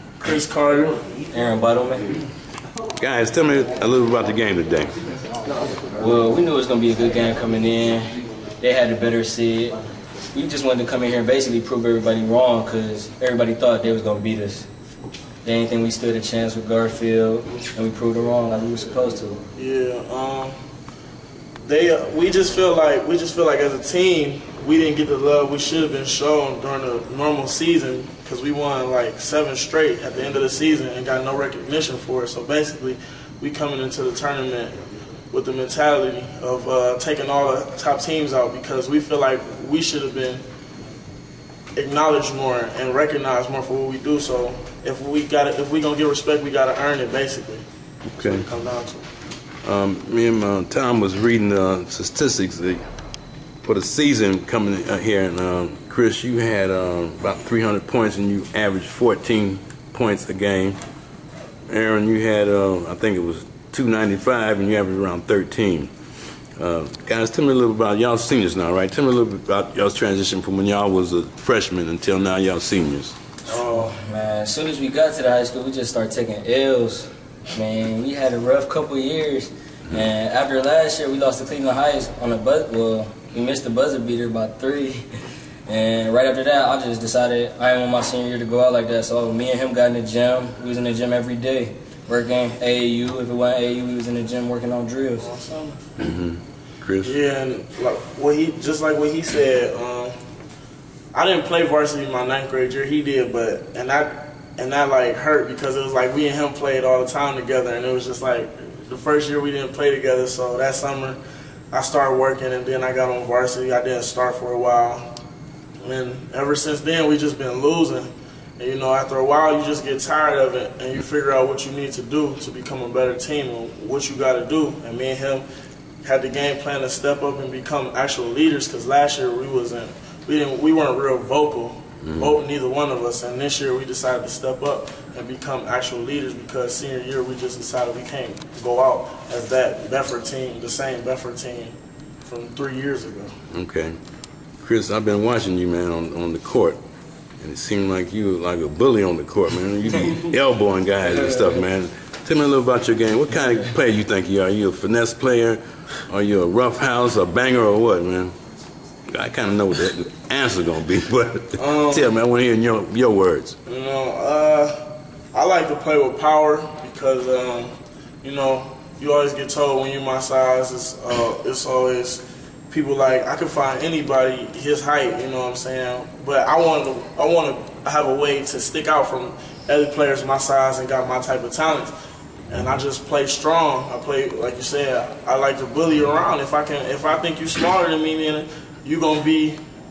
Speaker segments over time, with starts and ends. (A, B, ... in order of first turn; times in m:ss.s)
0:00.2-0:01.0 A
0:01.3-0:02.1 B
0:03.0-0:04.9 C
0:06.0-0:09.8 B
0:10.3-0:14.7 B
0:15.4-0:19.4 B
0:19.5-0:20.6 A
0:21.6-0:40.4 A
0:41.8-0:47.6 A
0:48.1-0:48.5 C
0:48.2-0:49.1 A
0:49.6-0:52.8 C
0:53.6-1:00.8 C
1:01.7-1:05.9 C
1:06.6-1:13.1 C
1:13.4-1:25.0 B
1:13.5-1:13.9 A
1:25.7-1:35.3 B
1:35.2-1:35.8 A
1:36.0-1:37.2 C
1:37.0-1:40.2 A
1:41.1-1:51.2 A
1:51.7-1:55.1 A
1:55.8-2:05.4 A
2:06.0-2:23.4 A
2:12.0-2:12.3 C
2:23.5-2:24.0 C
2:24.6-2:26.8 C
2:27.4-2:38.3 C
2:39.1-2:43.6 C
2:41.6-2:42.1 A
2:43.6-3:01.9 A
3:02.5-3:09.6 A